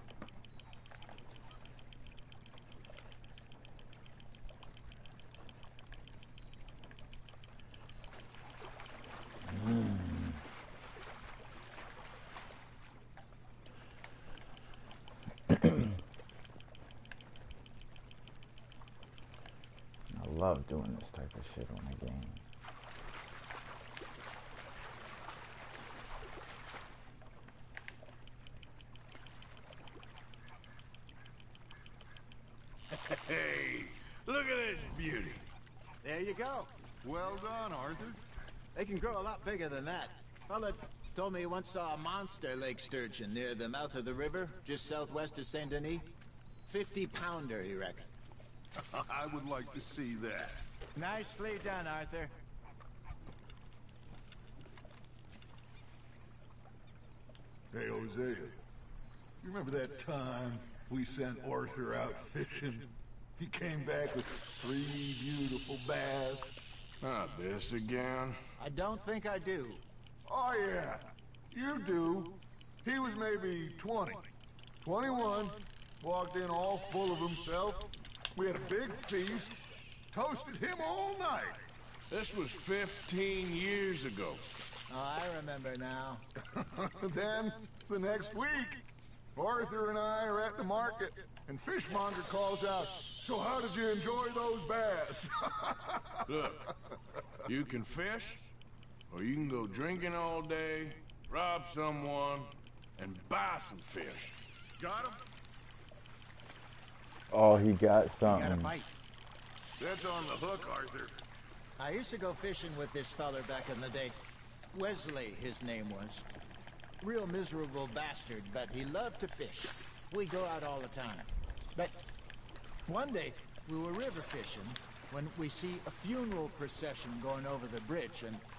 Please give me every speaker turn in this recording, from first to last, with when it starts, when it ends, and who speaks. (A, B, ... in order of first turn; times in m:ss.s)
0:09.4-0:10.4 A
0:15.5-0:15.9 A
0:20.1-0:22.4 A
0:32.9-0:35.4 B
0:36.0-0:36.7 C
0:37.0-0:38.2 D
0:38.8-0:46.1 C
0:46.7-0:48.1 C
0:48.8-0:50.6 D
0:51.0-0:52.3 C
0:57.7-0:58.6 D
0:59.4-1:06.6 D
1:07.0-1:08.4 B
1:08.6-1:09.8 C
1:10.3-1:14.3 D
1:14.8-1:19.6 D
1:20.1-1:21.6 D
1:22.1-1:24.4 B
1:24.9-1:26.2 C
1:26.6-1:28.8 D
1:29.4-1:36.2 D
1:36.3-1:36.6 B
1:37.5-1:38.5 B
1:39.1-1:44.4 B
1:44.8-1:45.2 D
1:47.3-1:48.7 A
1:48.3-1:48.9 C
1:49.8-1:51.2 D
1:51.8-1:54.2 C
1:54.7-1:56.3 C
1:57.0-2:02.0 C
2:02.9-2:08.4 C